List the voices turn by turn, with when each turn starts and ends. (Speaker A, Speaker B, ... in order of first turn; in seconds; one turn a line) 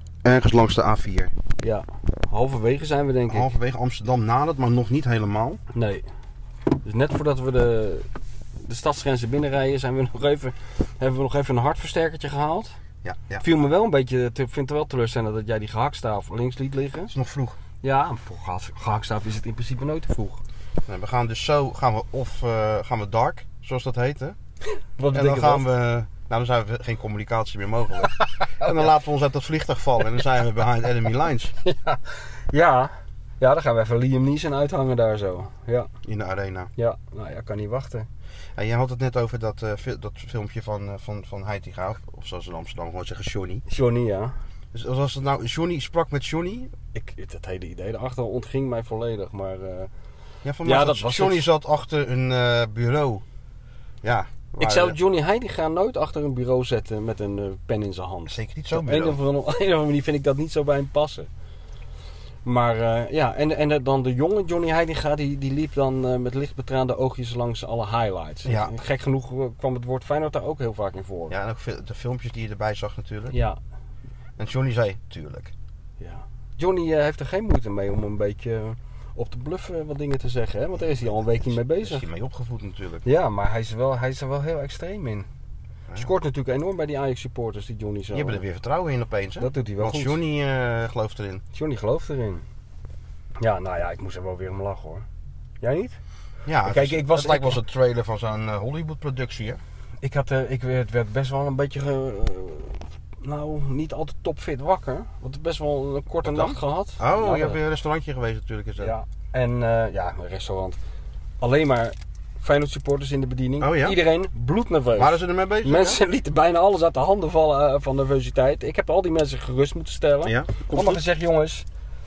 Speaker A: 0.2-1.3
Speaker B: 1.6-3.5
Speaker A: 3.3-5.6
Speaker B: 5.7-6.1
Speaker B: 6.8-8.1
Speaker B: 8.6-12.8
Speaker A: 13.0-13.4
Speaker B: 13.4-17.1
Speaker A: 17.1-17.6
Speaker B: 17.8-20.4
Speaker A: 20.9-24.4
Speaker B: 25.0-25.7
Speaker A: 25.1-31.6
Speaker B: 31.6-35.9
Speaker A: 36.0-36.7
Speaker B: 36.8-38.1
Speaker A: 38.6-43.6
Speaker B: 43.7-44.4
Speaker A: 44.7-46.7
Speaker B: 46.9-49.9
Speaker A: 50.4-53.2
Speaker B: 50.6-51.5
Speaker A: 54.0-55.0
Speaker B: 54.6-61.3
Speaker A: 58.3-59.2
Speaker B: 62.4-71.3
Speaker A: 68.5-68.7
Speaker A: 71.3-73.4
Speaker B: 73.3-73.6
Speaker A: 74.4-75.5
Speaker B: 76.0-82.1
Speaker A: 81.0-83.0
Speaker B: 83.0-85.3
Speaker B: 86.0-88.4
Speaker A: 88.1-91.4
Speaker B: 89.4-90.2
Speaker B: 91.5-92.4
Speaker B: 93.4-95.1
Speaker B: 95.6-96.0
Speaker A: 96.5-99.6
Speaker B: 96.7-97.6
Speaker B: 100.0-107.6
Speaker A: 106.2-108.9
Speaker B: 108.8-110.8
Speaker B: 111.4-121.7
Speaker A: 113.6-114.0
Speaker A: 114.9-116.0
Speaker A: 120.2-121.0